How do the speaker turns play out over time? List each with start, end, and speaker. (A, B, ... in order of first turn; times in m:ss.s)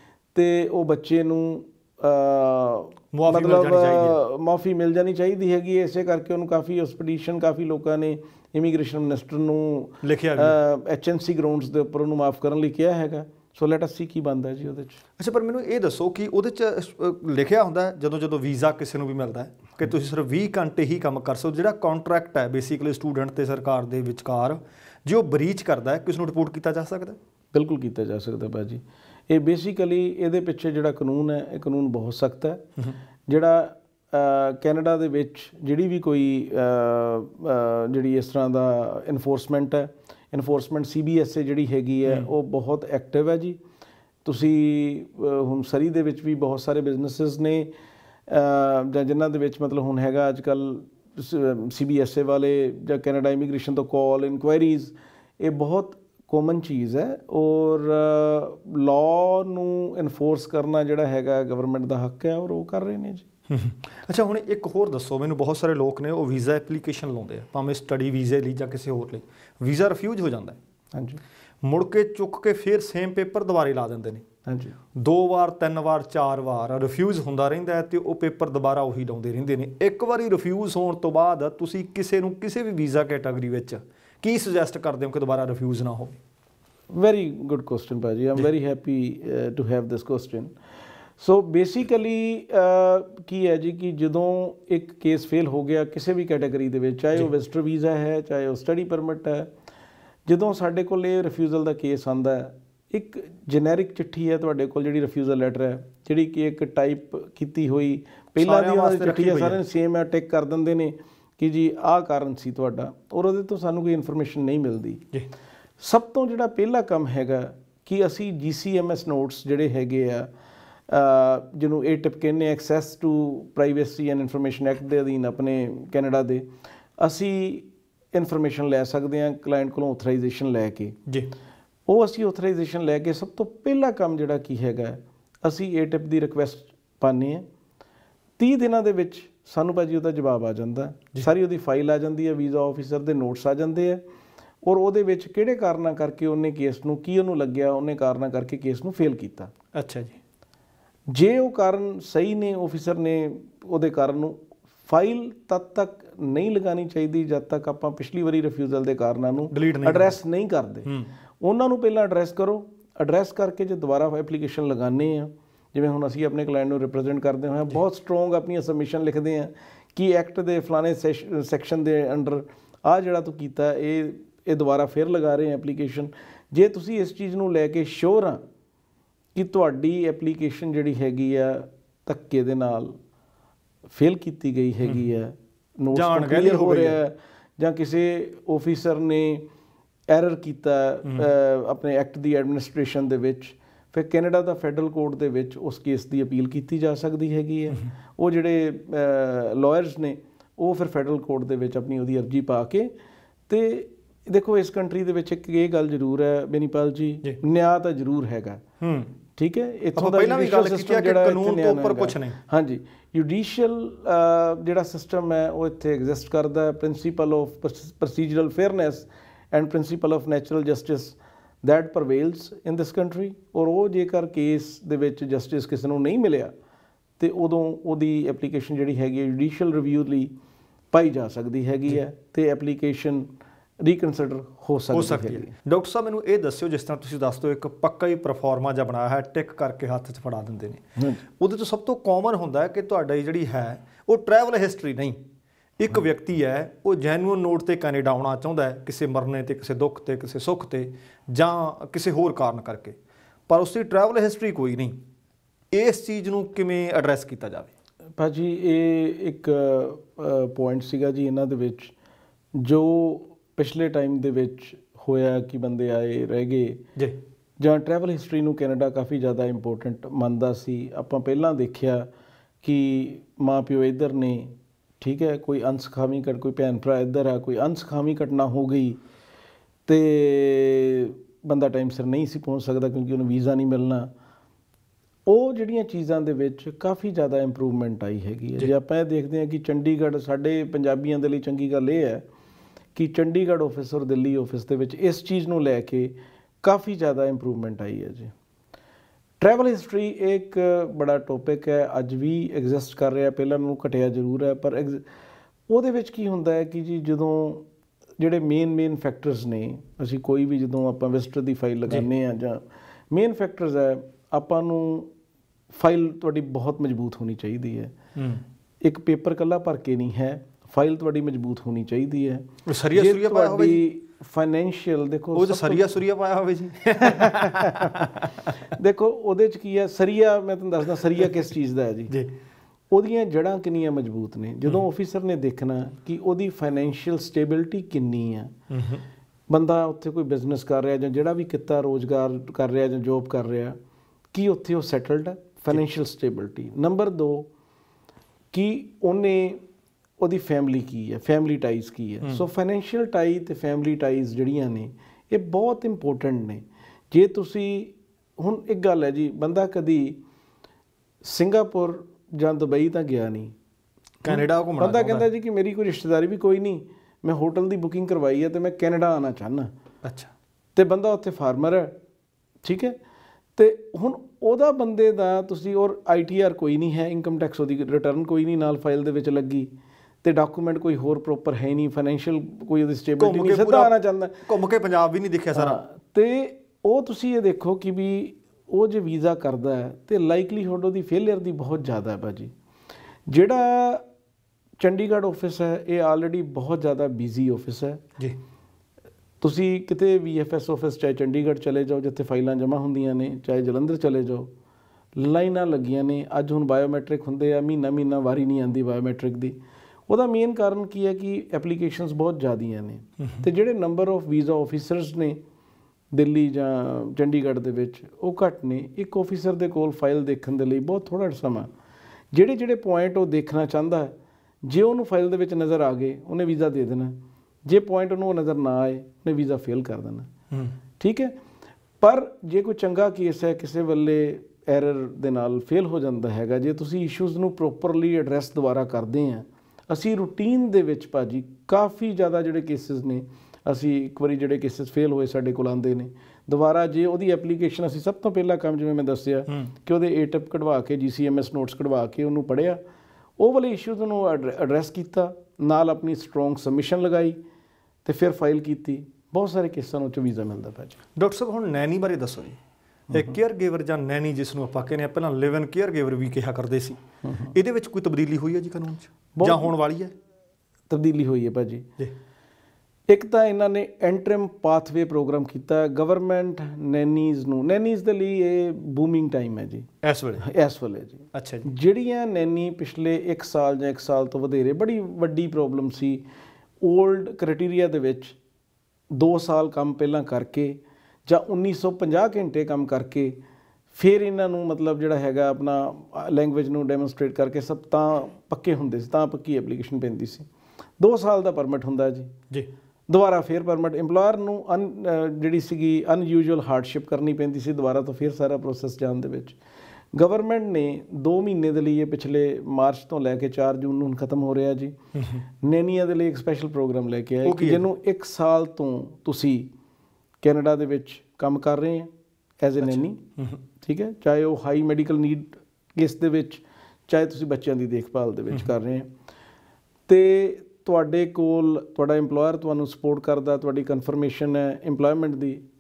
0:00.4-0:15.0 A
0:03.1-0:04.2 B
0:10.0-0:10.6 B
0:15.2-0:27.2 B
0:27.5-0:32.7 A
0:33.3-0:43.6 A
0:44.2-0:47.7 A
0:48.3-1:03.3 A
1:03.5-1:10.6 B
1:10.9-1:11.2 A
1:11.6-1:14.2 B
1:14.5-1:14.8 A
1:15.0-1:26.2 B
1:26.9-1:30.5 A
1:31.2-1:39.5 A
1:40.3-1:55.0 A
1:48.4-1:49.6 B
1:55.8-2:00.3 A
2:00.9-2:11.0 A
2:11.1-2:11.3 B
2:11.9-2:17.5 A
2:18.4-2:24.0 A
2:24.6-2:29.5 A
2:29.7-2:30.2 B
2:31.1-2:58.4 A
2:39.5-2:40.2 B
2:59.4-3:03.0 A
3:03.9-3:09.5 A
3:05.9-3:07.0 B
3:10.1-3:22.9 A
3:23.5-3:28.6 A
3:28.8-3:29.1 B
3:29.4-3:46.5 A
3:30.0-3:32.4 B
3:47.2-3:50.3 A
3:50.9-3:53.3 A
3:53.8-3:55.5 A
3:54.9-4:05.2 B
4:05.8-4:13.0 B
4:13.5-4:15.0 B
4:15.7-4:17.7 B
4:18.2-4:21.9 A
4:22.6-4:26.8 A
4:27.6-4:32.1 A
4:32.6-4:39.0 A
4:39.9-4:44.1 A
4:45.3-4:52.3 A
4:53.0-4:58.3 A
4:59.4-5:05.0 A
5:05.7-5:07.7 A
5:08.2-5:15.1 A
5:15.7-5:18.0 A
5:18.2-5:18.4 B
5:18.8-5:25.9 A
5:22.6-5:23.8 B
5:25.3-5:28.5 B
5:27.0-5:32.1 A
5:32.9-5:38.6 A
5:38.7-5:39.0 B
5:39.5-5:43.8 A
5:44.3-5:47.5 A
5:48.5-5:49.6 A
5:50.2-6:00.2 A
6:01.2-6:03.6 A
6:04.2-6:09.7 A
6:04.2-6:05.3 B
6:10.0-6:10.3 B
6:10.8-6:12.0 A
6:12.6-6:13.0 A
6:13.6-6:19.7 A
6:20.2-6:24.4 A
6:23.2-6:23.9 B
6:24.4-6:25.8 B
6:25.6-6:32.5 A
6:33.3-6:34.0 A
6:34.8-6:38.0 A
6:39.4-6:44.5 A
6:45.2-6:55.4 A
6:56.1-7:01.7 A
7:02.3-7:10.3 A
7:11.0-7:11.4 A
7:12.0-7:32.8 A
7:33.4-7:37.4 A
7:38.0-7:41.0 A
7:41.2-7:42.6 B
7:43.1-7:47.0 B
7:47.2-7:47.5 A
7:47.5-7:50.1 B
7:49.4-7:49.7 A
7:50.9-7:51.9 A
7:53.1-7:59.9 A
8:00.0-8:00.5 B
8:00.4-8:06.2 A
8:01.3-8:01.7 B
8:06.8-8:08.4 A
8:09.1-8:13.4 A
8:14.0-8:20.5 A
8:21.0-8:22.3 A
8:23.1-8:29.6 A
8:30.1-8:35.0 A
8:35.2-8:35.4 B
8:35.6-8:39.7 A
8:37.4-8:37.9 B
8:40.4-8:42.1 A
8:42.6-8:43.2 A
8:42.8-8:43.6 B
8:43.8-8:49.1 A
8:50.1-8:55.6 A